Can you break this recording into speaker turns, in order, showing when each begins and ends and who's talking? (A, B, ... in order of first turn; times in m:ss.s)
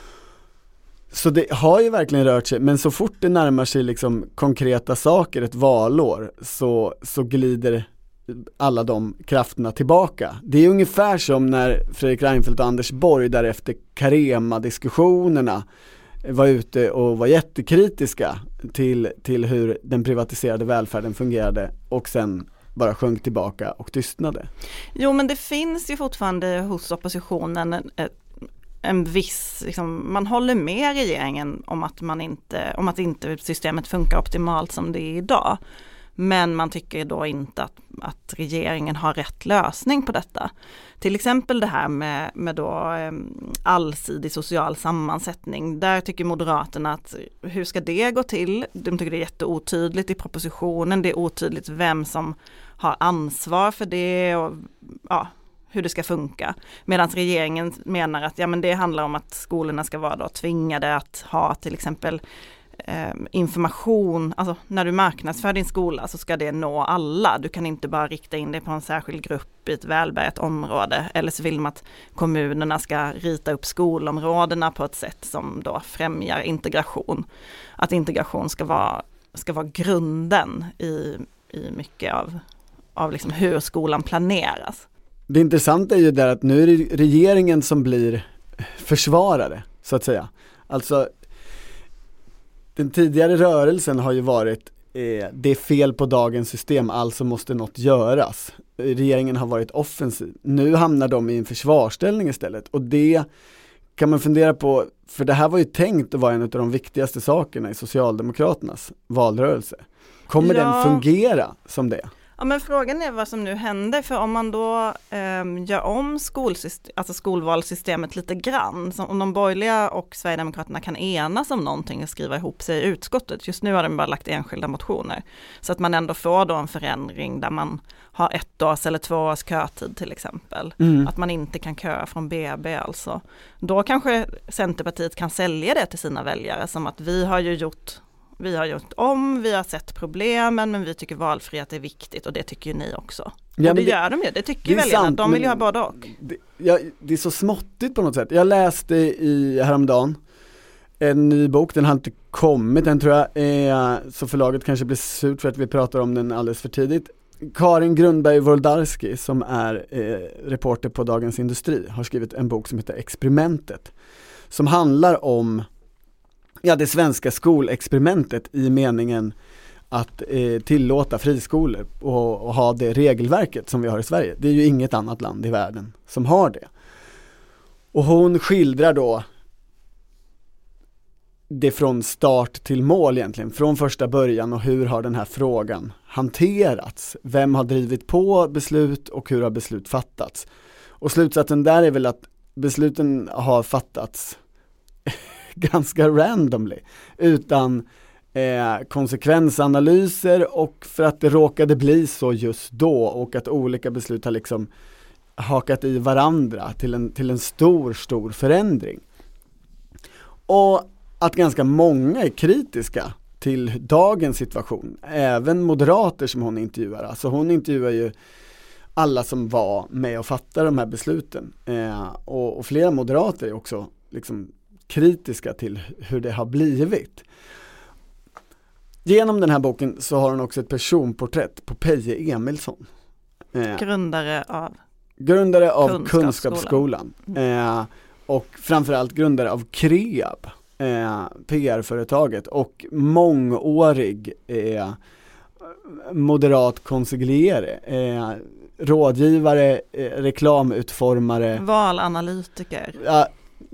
0:01.1-0:15.6 A
0:16.2-0:24.5 A
0:24.9-0:28.2 B
0:28.8-0:35.6 B
0:36.2-1:02.2 B
1:02.8-1:17.2 B
1:17.8-1:22.4 B
1:23.0-1:24.8 B
1:25.3-1:31.1 A
1:32.8-1:43.3 A
1:44.0-1:52.1 A
1:50.4-1:51.0 B
1:52.4-2:26.0 B
2:10.8-2:11.1 A
2:23.6-2:24.0 A
2:24.6-2:30.2 A
2:31.0-2:43.9 A
2:44.5-2:45.6 A
2:46.6-2:49.3 A
2:49.9-2:56.7 A
2:57.9-2:59.2 A
3:01.5-3:10.5 A
3:11.0-3:14.4 A
3:15.0-3:24.7 A
3:25.4-3:29.0 A
3:30.5-3:38.1 A
3:39.0-3:47.2 A
3:49.0-3:52.9 A
3:53.5-3:53.8 A
3:53.7-3:54.8 B
3:55.2-4:05.0 A
3:55.8-3:56.8 B
4:05.7-4:11.6 A
4:11.5-4:13.0 B
4:13.0-4:13.3 A